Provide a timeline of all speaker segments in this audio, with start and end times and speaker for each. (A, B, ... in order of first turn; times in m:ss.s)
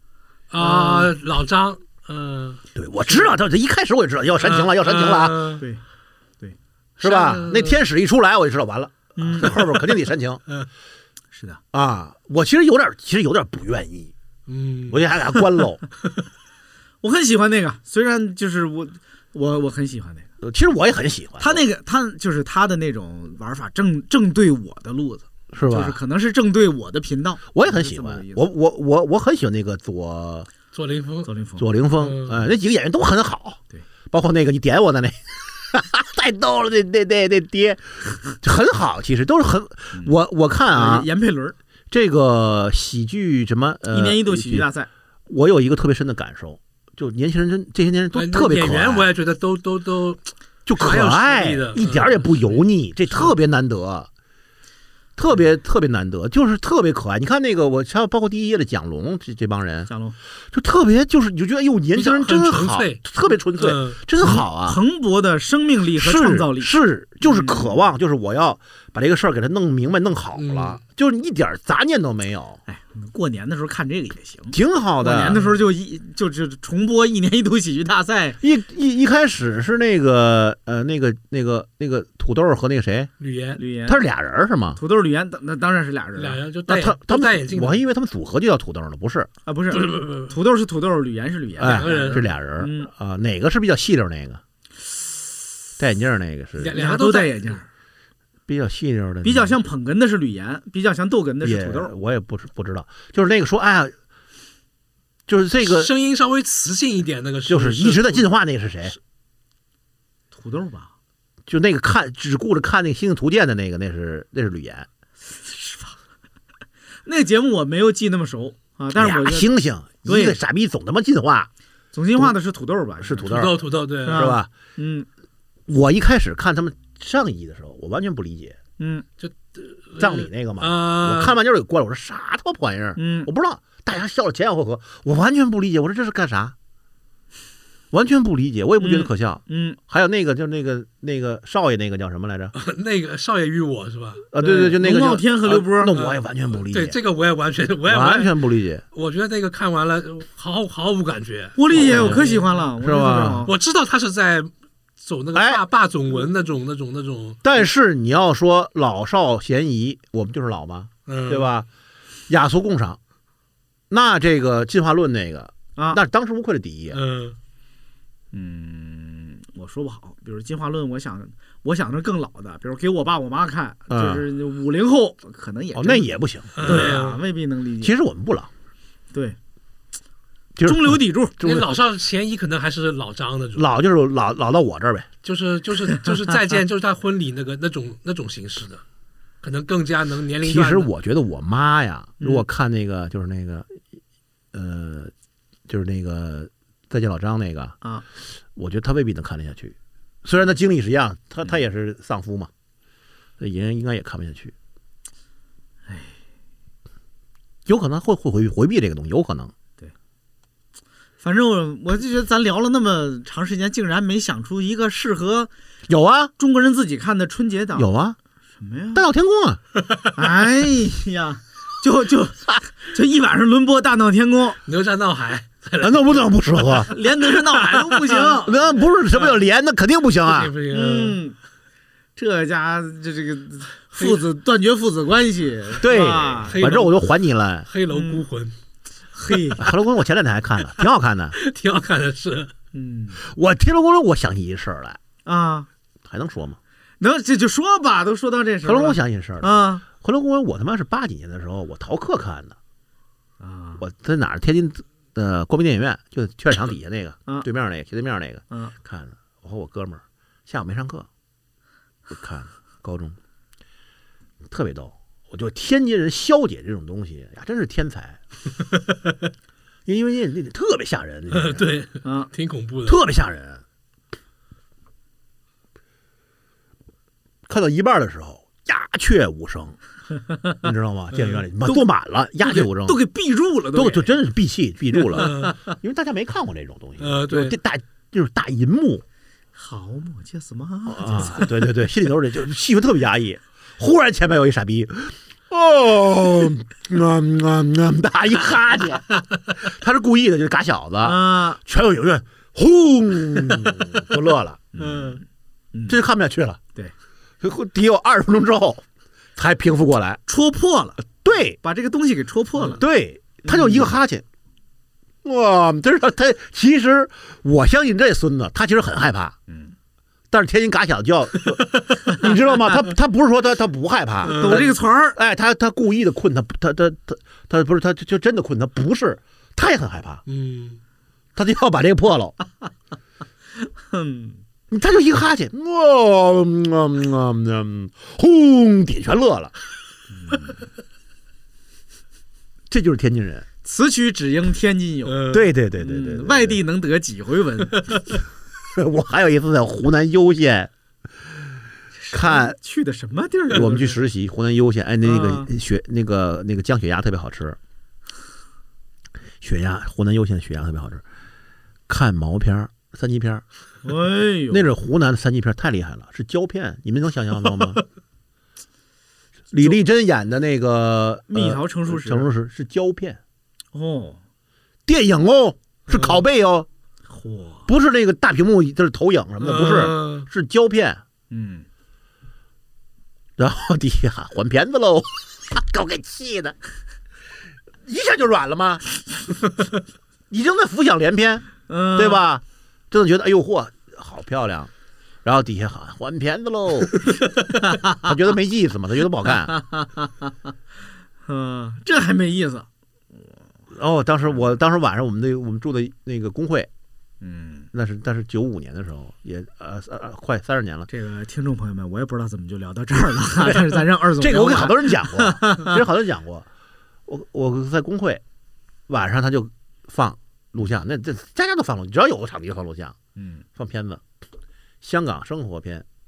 0:00.5-0:03.3 A
0:00.6-0:01.1 B
0:02.8-0:05.6 C
0:04.4-0:05.6 A
0:07.0-0:10.4 C
0:07.0-0:07.8 A
0:09.2-0:09.6 B
0:11.3-0:11.6 B
0:11.7-0:14.1 C
0:14.5-0:15.4 A
0:14.9-0:15.8 C
0:17.0-0:20.3 B
0:20.4-0:21.6 C
0:21.4-0:28.5 B
0:25.5-0:26.0 C
0:27.5-0:30.5 C
0:30.7-0:31.3 A
0:31.2-0:31.7 B
0:31.6-0:41.1 C
0:32.0-0:32.4 A
0:40.7-0:41.6 B
0:41.9-0:44.7 C
0:43.9-0:44.9 B
0:45.3-0:49.1 C
0:48.1-0:52.6 A
0:50.7-0:54.1 C
0:55.2-0:59.9 C
0:59.9-1:00.2 B
1:00.5-1:04.8 C
1:02.0-1:04.0 A
1:04.2-1:07.8 B
1:06.0-1:12.6 C
1:10.4-1:10.8 A
1:12.7-1:18.4 B
1:14.5-1:15.4 C
1:15.3-1:15.6 A
1:18.4-1:23.1 C
1:23.2-1:23.6 A
1:23.6-1:24.0 B
1:23.8-1:24.8 C
1:24.8-1:26.4 B
1:26.2-1:27.8 A
1:26.7-1:29.3 C
1:29.5-1:32.9 B
1:29.7-1:30.3 A
1:31.6-1:34.4 C
1:31.6-1:32.3 A
1:35.8-1:36.8 C
1:36.6-1:37.6 A
1:36.8-1:37.7 B
1:38.5-1:39.6 C
1:39.2-1:41.9 B
1:41.4-1:44.0 C
1:45.3-1:45.9 C
1:45.6-1:48.2 A
1:47.5-1:49.0 C
1:50.3-1:50.9 B
1:51.5-1:54.9 C
1:55.3-1:56.0 B
1:57.0-1:59.5 B
1:59.0-2:01.5 C
2:00.0-2:00.4 B
2:01.9-2:03.5 B
2:03.0-2:04.5 C
2:03.3-2:04.4 A
2:04.0-2:05.1 B
2:05.7-2:08.6 C
2:08.8-2:09.1 B
2:09.2-2:11.4 A
2:10.0-2:16.6 C
2:13.0-2:13.3 B
2:17.9-2:22.6 C
2:18.8-2:19.8 B
2:22.6-2:24.3 A
2:24.3-2:27.0 C
2:24.4-2:25.9 B
2:26.0-2:28.4 A
2:27.9-2:28.8 C
2:28.9-2:32.5 A
2:31.6-2:33.5 B
2:31.7-2:32.2 C
2:32.8-2:33.5 C
2:33.5-2:34.5 A
2:35.0-2:37.4 A
2:35.3-2:35.6 C
2:37.4-2:41.7 C
2:41.1-2:41.5 A
2:42.3-2:43.0 C
2:43.9-2:47.0 C
2:46.9-2:47.4 A
2:48.3-2:57.9 B
2:53.9-2:54.2 C
2:55.7-2:57.0 C
2:56.6-2:57.2 A
2:57.8-2:58.5 C
3:00.6-3:01.7 C
3:00.6-3:01.4 B
3:01.4-3:03.7 A
3:03.6-3:05.1 C
3:05.2-3:08.8 A
3:09.4-3:10.9 A
3:10.4-3:13.8 C
3:12.2-3:12.4 B
3:14.5-3:15.1 C
3:15.7-3:17.8 C
3:18.6-3:22.5 C
3:23.4-3:24.5 C
3:25.9-3:26.2 B
3:27.7-3:29.5 C
3:31.2-3:35.5 B
3:35.9-3:36.3 C
3:36.4-3:37.9 B
3:37.8-3:38.2 C
3:38.6-3:39.0 B
3:38.9-3:39.6 C
3:40.1-3:44.6 B
3:44.7-3:46.9 A
3:45.8-3:46.9 C
3:46.9-3:48.8 B
3:47.4-3:48.4 A
3:48.4-3:50.5 C
3:50.2-3:51.2 A
3:50.7-3:51.4 B
3:52.2-3:56.6 B
3:54.0-3:54.2 A
3:55.8-3:57.7 C
3:56.5-3:57.0 A
3:57.7-3:58.5 A
3:57.9-3:58.2 B
3:59.1-3:59.6 B
3:59.6-4:01.4 C
4:01.4-4:02.5 A
4:02.7-4:03.2 B
4:03.2-4:05.0 C
4:05.3-4:05.7 B
4:06.0-4:06.6 C
4:07.0-4:09.8 B
4:08.6-4:12.6 C
4:13.4-4:13.8 B
4:13.8-4:21.1 C
4:22.1-4:23.2 C
4:24.5-4:28.2 C
4:29.9-4:31.7 C
4:31.3-4:33.0 A
4:32.0-4:32.3 B
4:32.8-4:33.6 C
4:37.5-4:39.8 C
4:40.6-4:43.0 C
4:41.2-4:41.4 A
4:42.4-4:44.2 B
4:43.7-4:49.0 C
4:45.2-4:45.6 A
4:47.0-4:47.6 A
4:49.5-4:51.6 B
4:50.9-5:05.2 C
5:01.0-5:01.6 B
5:04.7-5:05.2 B
5:05.7-5:06.0 B
5:05.9-5:06.6 C
5:07.4-5:08.8 C
5:09.4-5:10.2 C
5:10.3-5:12.8 B
5:11.2-5:11.6 C
5:12.7-5:14.2 C
5:13.4-5:13.9 B
5:15.2-5:19.4 C
5:19.5-5:19.7 B
5:20.3-5:30.2 C
5:24.2-5:25.2 B
5:24.3-5:24.7 A
5:30.3-5:30.8 A
5:31.4-5:32.3 C
5:33.6-5:34.4 B
5:34.7-5:39.5 C
5:40.2-5:40.6 B
5:42.7-5:43.5 C
5:43.6-5:45.3 B
5:45.1-5:45.4 A
5:45.3-5:46.6 C
5:45.8-5:48.0 B
5:48.7-5:50.7 C
5:52.0-5:53.9 B
5:52.1-5:52.6 C
5:53.5-5:57.6 C
5:55.0-5:55.5 B
5:59.4-6:01.0 C
6:01.9-6:03.4 C
6:03.8-6:04.7 B
6:04.5-6:07.8 C
6:09.5-6:13.2 C
6:11.3-6:12.3 B
6:13.7-6:14.2 B
6:14.9-6:16.7 C
6:15.9-6:16.2 A
6:17.1-6:17.7 B
6:17.7-6:21.0 C
6:19.4-6:20.3 A
6:21.3-6:21.7 B
6:23.4-6:26.6 C
6:27.8-6:29.3 C
6:30.3-6:34.7 C
6:31.7-6:32.2 B
6:35.2-6:37.1 C
6:37.8-6:39.6 C
6:39.5-6:40.0 B
6:41.3-6:42.7 B
6:43.7-6:46.7 C
6:47.2-6:47.7 B
6:47.7-6:50.9 C
6:50.9-6:55.8 B
6:53.4-6:56.5 C
6:57.1-6:58.2 C
6:58.9-7:03.0 C
7:03.2-7:03.4 B
7:03.6-7:04.0 C
7:04.8-7:05.9 C